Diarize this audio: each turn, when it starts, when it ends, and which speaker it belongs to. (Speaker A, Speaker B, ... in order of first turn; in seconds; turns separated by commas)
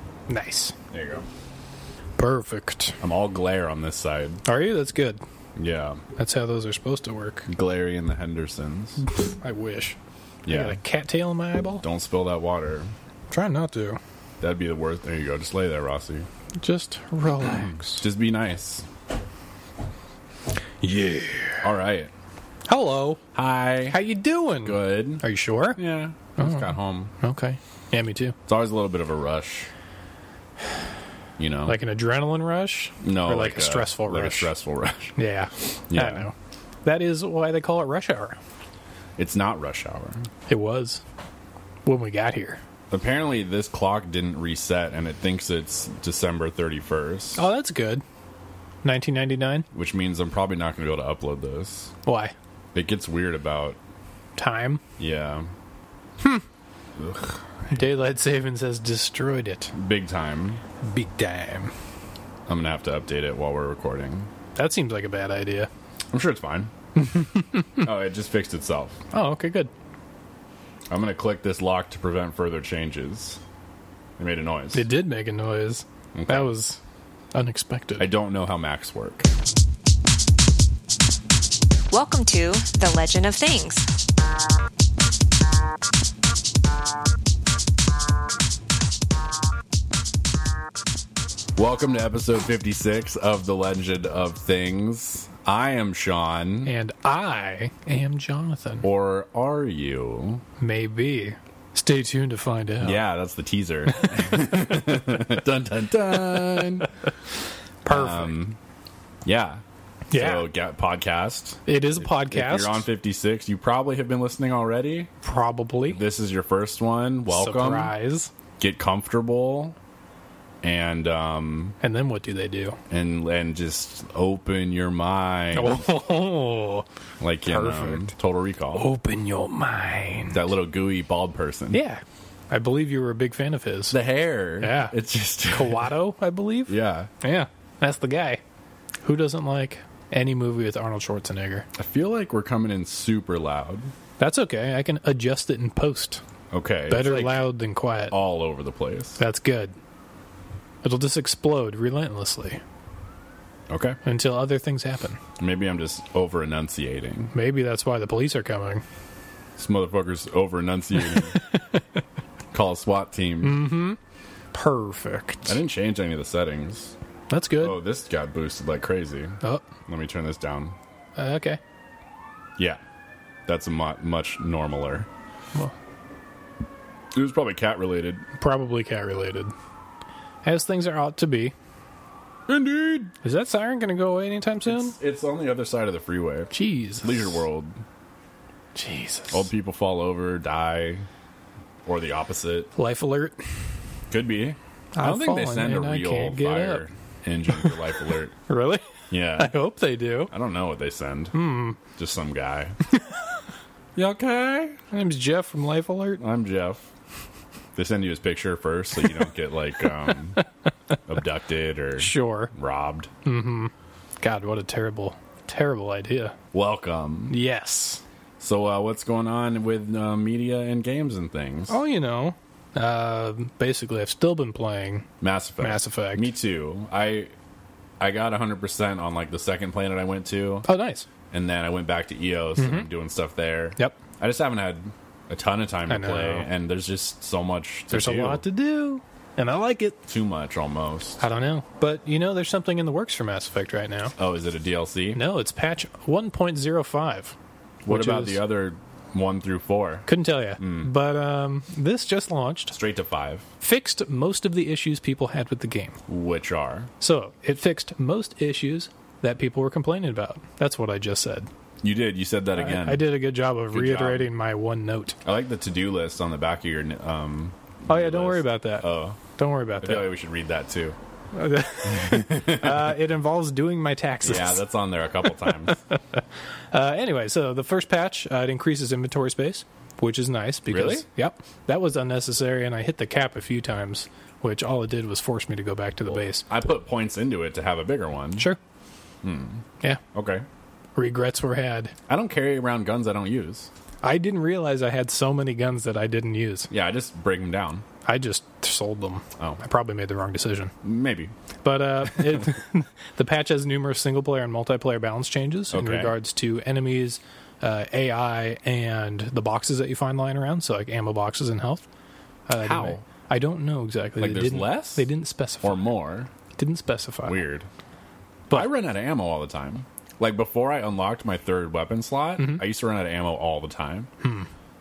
Speaker A: 0.3-0.8, Speaker B: 0.9-1.3, Speaker A: 2.2-3.0, Speaker B: 3.0-4.4, Speaker A: 4.5-5.2, Speaker B: 5.6-6.0, Speaker A: 6.2-7.5, Speaker B: 7.5-9.0, Speaker A: 9.3-11.8, Speaker B: 10.5-10.8, Speaker B: 11.8-12.9, Speaker A: 13.3-14.0, Speaker B: 14.4-16.3, Speaker A: 16.6-18.1, Speaker B: 18.0-18.9, Speaker A: 20.8-21.7, Speaker B: 21.6-22.1, Speaker A: 22.7-23.2, Speaker B: 23.4-24.0, Speaker A: 23.9-25.8, Speaker B: 24.6-25.2, Speaker B: 25.8-27.1, Speaker A: 26.4-28.4, Speaker B: 28.5-29.7, Speaker B: 31.4-31.8, Speaker A: 31.7-34.5, Speaker B: 33.0-35.2, Speaker A: 35.2-36.3, Speaker B: 35.9-36.3, Speaker A: 36.9-38.4, Speaker B: 39.2-40.3, Speaker A: 40.5-41.0, Speaker A: 41.9-42.6, Speaker B: 42.9-47.5, Speaker A: 47.4-48.0, Speaker A: 48.8-49.7, Speaker B: 49.7-51.9, Speaker A: 52.0-52.3, Speaker B: 52.7-53.8, Speaker A: 54.4-54.8, Speaker B: 55.0-55.5, Speaker B: 57.0-57.3, Speaker A: 57.7-59.7, Speaker B: 59.7-60.6, Speaker A: 60.8-61.7, Speaker B: 62.5-64.3, Speaker A: 64.5-65.7, Speaker B: 66.1-66.7, Speaker A: 67.0-67.9, Speaker B: 67.8-69.0, Speaker A: 69.1-69.7, Speaker B: 70.9-73.4, Speaker B: 74.2-74.9, Speaker A: 74.7-76.8, Speaker B: 76.2-76.5, Speaker A: 77.3-78.1, Speaker B: 78.0-79.3, Speaker C: 81.9-83.9, Speaker B: 91.6-96.7, Speaker A: 96.7-98.9, Speaker B: 98.8-100.4, Speaker A: 100.6-103.0, Speaker B: 102.8-106.9, Speaker A: 107.8-108.4, Speaker B: 107.9-108.6, Speaker B: 109.2-115.1, Speaker A: 110.1-110.5, Speaker A: 111.7-112.9, Speaker A: 115.2-116.0, Speaker B: 115.9-117.9, Speaker A: 117.3-118.3, Speaker B: 118.6-119.8, Speaker B: 120.6-121.8, Speaker A: 121.8-122.8, Speaker B: 122.9-125.8, Speaker A: 125.5-126.9, Speaker B: 127.2-128.9, Speaker A: 127.4-128.1, Speaker A: 128.7-130.5, Speaker B: 130.3-131.8, Speaker A: 131.7-134.0, Speaker B: 133.9-135.9, Speaker A: 134.6-134.9, Speaker A: 135.5-138.4, Speaker B: 136.7-137.1, Speaker A: 139.0-141.7, Speaker B: 141.8-143.9, Speaker A: 144.2-146.2, Speaker B: 146.5-147.4, Speaker A: 146.9-148.1, Speaker B: 148.1-149.2, Speaker A: 149.2-149.8, Speaker A: 150.8-152.6, Speaker B: 153.7-154.0, Speaker A: 154.1-155.2, Speaker B: 155.4-157.3, Speaker A: 157.3-158.8, Speaker B: 159.6-161.4, Speaker A: 160.9-161.8, Speaker B: 162.5-163.7, Speaker A: 163.4-164.0, Speaker A: 164.5-165.6, Speaker B: 165.5-166.9, Speaker A: 167.3-167.8, Speaker B: 167.6-170.8, Speaker A: 171.2-171.6, Speaker B: 173.5-175.1, Speaker B: 177.1-178.3, Speaker A: 178.4-179.5, Speaker A: 180.4-181.5, Speaker B: 182.5-183.1, Speaker A: 183.2-185.0, Speaker B: 184.7-187.8, Speaker A: 186.5-187.4, Speaker A: 188.8-189.5, Speaker B: 189.3-191.1, Speaker B: 191.9-192.7, Speaker A: 192.8-193.4, Speaker B: 194.1-198.3, Speaker A: 194.9-196.8, Speaker A: 197.5-200.3, Speaker B: 199.1-199.5, Speaker B: 200.3-201.4, Speaker A: 201.3-201.8, Speaker B: 201.9-202.8, Speaker B: 204.0-204.8, Speaker A: 204.9-206.2, Speaker B: 206.2-206.9, Speaker B: 207.8-210.4, Speaker B: 211.1-213.1, Speaker A: 212.0-212.5, Speaker A: 213.2-216.4, Speaker B: 216.5-217.4, Speaker A: 217.3-218.0, Speaker B: 218.4-221.8, Speaker A: 221.7-225.1, Speaker B: 225.2-227.3, Speaker A: 225.6-226.3, Speaker B: 228.0-230.7, Speaker A: 230.7-231.1, Speaker B: 231.3-238.4, Speaker A: 232.6-232.9, Speaker A: 235.9-236.5, Speaker A: 237.9-240.0, Speaker B: 240.1-241.2, Speaker A: 241.2-244.2, Speaker B: 244.2-245.2, Speaker A: 245.1-247.4, Speaker B: 247.9-250.1, Speaker A: 247.9-248.4, Speaker A: 250.1-252.8, Speaker B: 250.6-250.9, Speaker B: 252.7-253.5, Speaker A: 253.6-256.0, Speaker B: 256.1-256.9, Speaker A: 257.0-261.5, Speaker B: 261.8-263.1, Speaker A: 262.6-265.2, Speaker B: 263.7-264.3, Speaker B: 265.2-269.2, Speaker A: 267.9-270.1, Speaker B: 269.8-271.0, Speaker A: 271.3-274.6, Speaker B: 271.8-272.9, Speaker B: 274.2-275.8, Speaker A: 275.2-286.5, Speaker B: 280.7-281.1, Speaker B: 286.1-288.5, Speaker B: 289.2-290.4, Speaker A: 290.9-291.9, Speaker B: 292.1-293.7, Speaker A: 294.0-296.7, Speaker B: 296.7-297.9, Speaker A: 298.1-300.7, Speaker B: 300.8-301.3, Speaker A: 301.6-311.9, Speaker B: 305.7-306.1, Speaker A: 312.5-315.9, Speaker B: 312.6-313.0, Speaker B: 314.2-315.1, Speaker B: 315.6-316.3, Speaker A: 316.6-317.4, Speaker B: 317.2-317.7, Speaker B: 318.5-324.1, Speaker A: 322.4-322.6, Speaker A: 324.2-324.5